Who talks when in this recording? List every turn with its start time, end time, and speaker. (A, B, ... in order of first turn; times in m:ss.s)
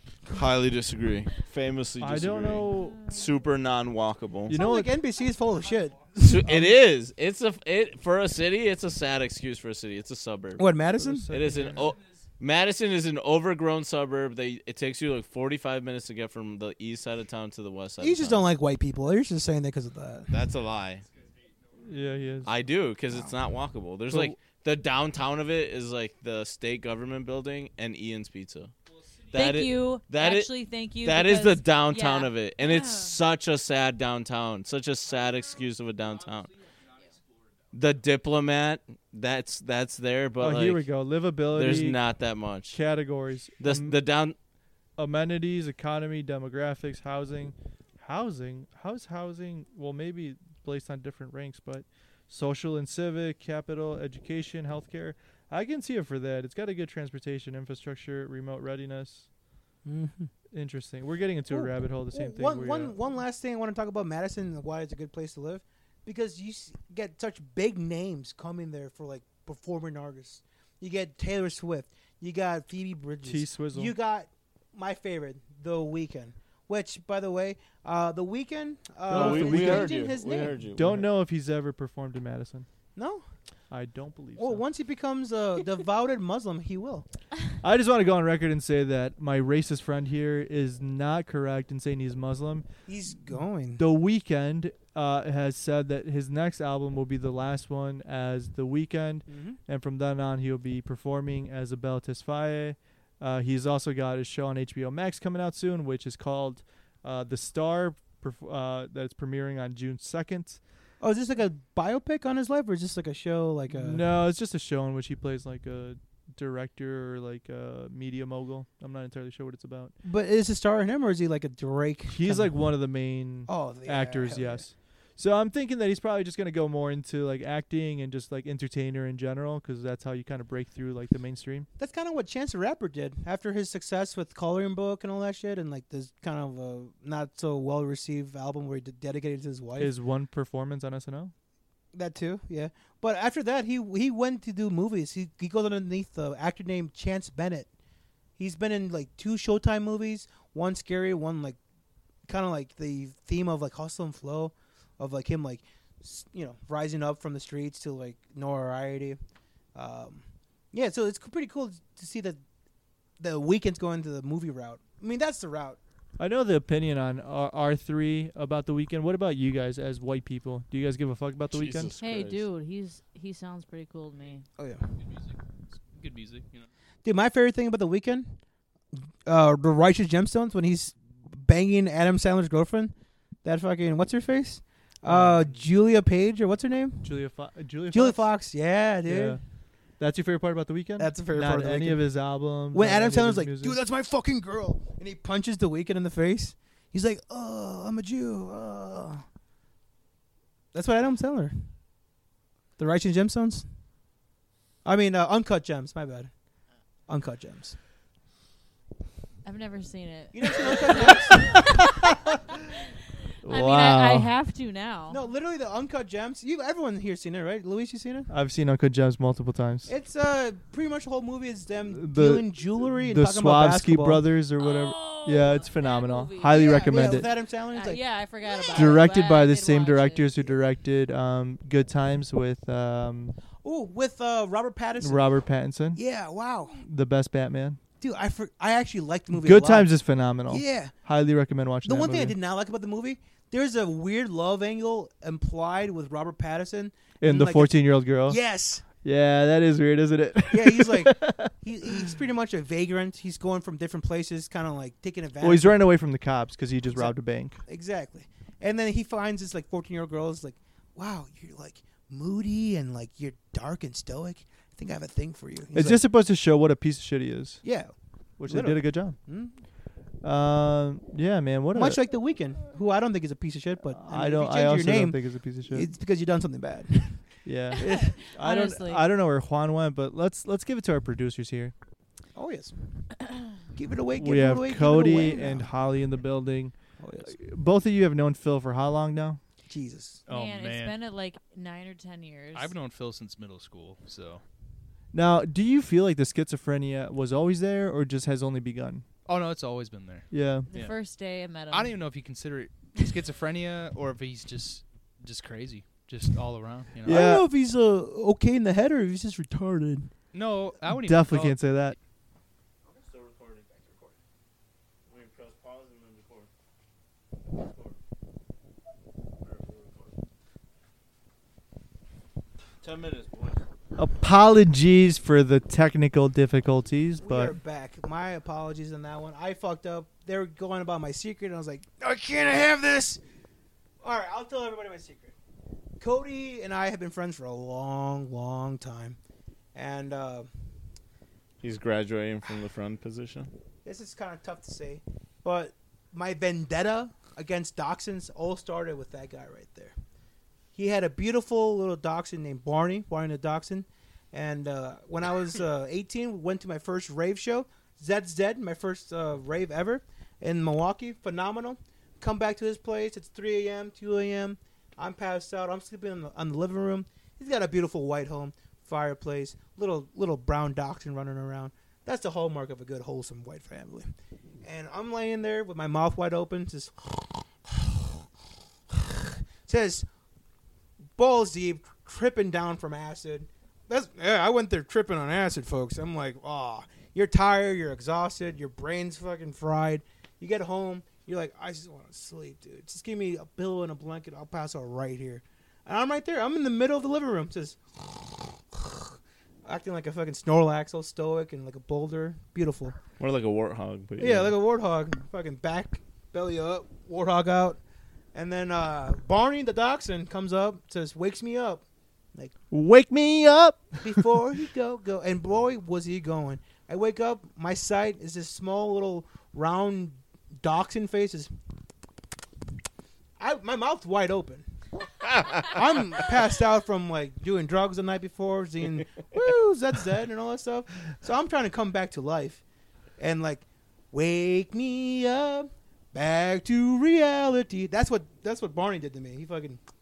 0:00.3-0:04.6 A
0:02.0-0:03.0 B
0:02.8-0:03.3 C
0:04.5-0:04.9 B
0:04.5-0:06.7 D
0:06.2-0:10.7 A
0:10.6-0:11.3 D
0:11.0-0:11.9 B
0:11.3-0:18.4 A
0:18.0-0:20.4 D
0:20.3-0:21.0 A
0:21.2-0:21.7 E
0:21.8-0:22.5 B
0:22.4-0:28.7 A
0:24.1-0:24.4 B
0:28.9-0:29.3 E
0:29.3-0:36.5 A
0:29.3-0:33.2 C
0:36.5-0:37.4 E
0:37.7-0:40.8 A
0:40.4-0:42.0 B
0:41.5-0:42.8 A
0:42.7-0:44.0 B
0:43.6-0:44.4 A
0:45.0-0:59.3 B
0:59.8-1:00.3 D
1:00.5-1:03.0 B
1:01.5-1:20.6 D
1:13.2-1:13.9 B
1:19.1-1:20.0 B
1:19.1-1:21.0 A
1:20.8-1:22.7 B
1:23.0-1:23.2 D
1:23.7-1:24.6 B
1:24.4-1:27.0 D
1:27.6-1:32.7 B
1:32.9-1:33.8 D
1:33.8-1:50.6 B
1:39.3-1:39.6 D
1:51.0-1:54.0 D
1:53.7-1:59.9 B
2:00.0-2:02.5 D
2:02.1-2:11.7 B
2:03.5-2:04.6 D
2:11.8-2:19.9 D
2:19.8-2:21.3 B
2:21.9-2:27.7 D
2:28.4-2:31.6 D
2:32.3-2:39.2 D
2:39.8-2:42.4 D
2:43.2-2:45.8 D
2:46.2-2:51.9 B
2:51.5-2:52.5 A
2:52.0-2:54.4 C
2:54.6-2:55.0 D
2:55.9-2:56.7 E
2:57.0-2:58.4 D
2:59.3-3:02.9 D
3:03.4-3:07.1 D
3:05.1-3:05.6 B
3:07.0-3:08.3 B
3:07.9-3:09.4 D
3:09.1-3:09.4 B
3:10.0-3:13.8 B
3:11.0-3:12.1 D
3:12.6-3:19.2 D
3:20.7-3:21.6 D
3:22.8-3:23.6 D
3:24.8-3:26.3 D
3:27.1-3:27.8 D
3:29.4-3:32.1 C
3:30.3-3:31.7 D
3:33.4-3:34.3 B
3:33.5-3:35.2 C
3:35.1-3:38.3 D
3:38.3-3:39.9 B
3:39.9-3:44.2 D
3:41.9-3:47.3 B
3:44.6-3:50.4 C
3:46.5-3:49.0 D
3:48.7-3:53.4 B
3:53.6-3:55.2 D
3:55.0-3:56.0 B
3:56.0-3:56.8 D
3:56.8-3:57.8 B
3:58.0-3:59.9 D
3:59.4-4:02.4 B
4:00.5-4:00.9 D
4:01.8-4:08.8 D
4:07.2-4:08.4 B
4:09.0-4:11.9 B
4:10.5-4:15.8 D
4:15.4-4:17.6 B
4:16.9-4:26.0 D
4:25.7-4:27.6 B
4:27.6-4:27.9 D
4:28.4-4:29.2 B
4:28.5-4:29.5 D
4:30.2-4:32.0 B
4:31.7-4:38.2 D
4:33.9-4:35.9 B
4:37.4-4:41.7 B
4:37.7-4:39.0 C
4:42.4-4:43.1 D
4:43.7-4:45.7 D
4:44.2-4:46.8 B
4:47.0-4:47.4 D
4:47.3-4:49.4 B
4:49.7-4:50.2 D
4:50.3-4:51.0 E
4:50.3-4:52.7 C
4:52.5-4:54.4 E
4:55.1-4:59.0 B
4:59.3-5:01.0 E
5:00.3-5:00.7 B
5:00.7-5:02.0 C
5:01.7-5:07.3 E
5:07.0-5:07.4 B
5:07.1-5:10.1 D
5:10.3-5:11.6 E
5:10.8-5:12.0 B
5:12.8-5:14.2 A
5:15.1-5:16.5 A
5:17.5-5:18.0 A
5:19.4-5:20.2 A
5:22.8-5:23.6 A
5:24.0-5:27.6 B
5:27.2-5:33.2 D
5:34.0-5:35.3 D
5:36.0-5:39.2 D
5:39.8-5:40.5 D
5:41.6-5:43.5 A
5:43.8-5:50.0 D
5:50.8-6:14.1 D
6:14.6-6:18.1 D
6:18.9-6:20.1 D
6:21.2-6:39.1 D
6:39.6-6:43.0 D
6:43.2-6:44.6 A
6:44.2-6:47.8 D
6:48.3-6:51.8 D
6:52.7-6:54.3 B
6:54.0-7:01.5 D
7:03.4-7:04.6 D
7:05.2-7:05.7 A
7:05.5-7:12.6 D
7:13.2-7:19.8 D